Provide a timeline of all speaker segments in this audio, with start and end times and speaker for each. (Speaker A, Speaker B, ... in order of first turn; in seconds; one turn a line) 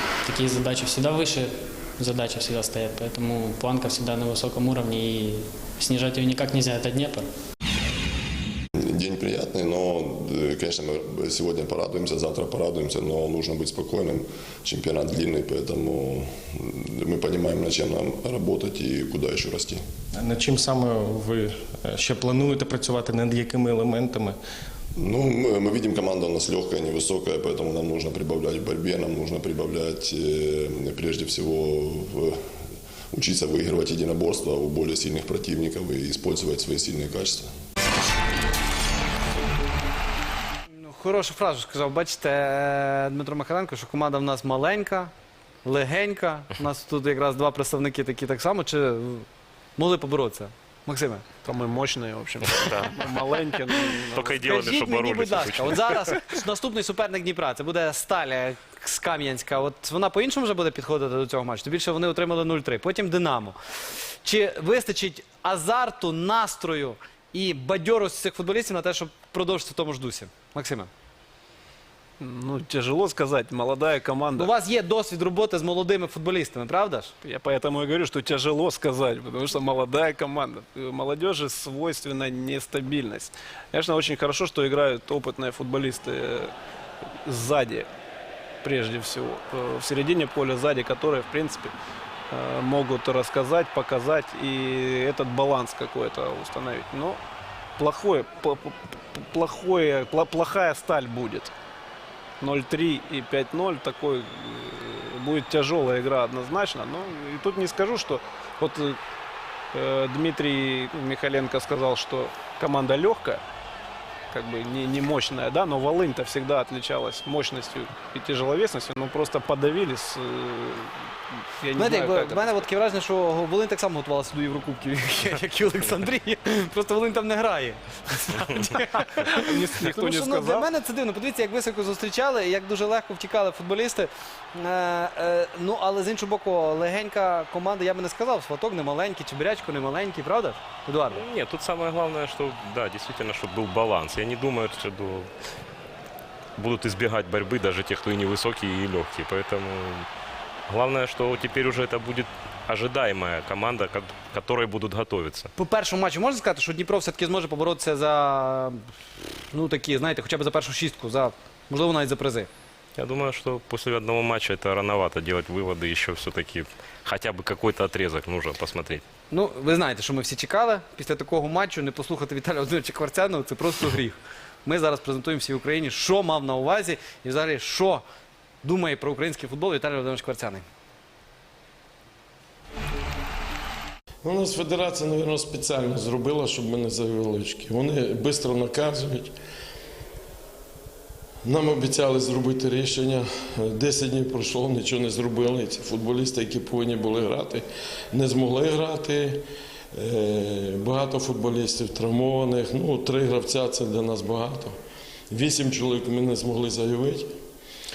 Speaker A: 0.2-7.3
Speaker B: 8.8-19.8
Speaker C: 20.1-24.4
Speaker B: 25.0-32.4
Speaker B: 33.1-37.5
Speaker D: 40.7-45.1
Speaker D: 45.6-49.2
Speaker D: 49.8-51.2
Speaker E: 51.4-54.4
Speaker F: 52.5-53.5
Speaker F: 54.1-56.1
Speaker D: 54.4-63.5
Speaker D: 64.2-70.9
Speaker E: 72.2-74.5
Speaker D: 74.3-77.1
Speaker E: 77.2-86.5
Speaker E: 87.2-87.9
Speaker E: 88.6-91.7
Speaker E: 92.3-97.2
Speaker E: 97.8-101.5
Speaker E: 102.4-109.0
Speaker E: 109.7-113.4
Speaker E: 114.3-122.6
Speaker D: 121.8-141.2
Speaker E: 128.8-130.7
Speaker F: 141.1-145.3
Speaker F: 146.6-150.1
Speaker F: 150.7-155.5
Speaker D: 155.6-158.8
Speaker D: 159.5-162.5
Speaker F: 162.9-169.0
Speaker D: 169.3-178.0
Speaker D: 178.6-180.6
Speaker G: 184.2-189.3
Speaker G: 191.4-204.8
Speaker G: 205.3-207.3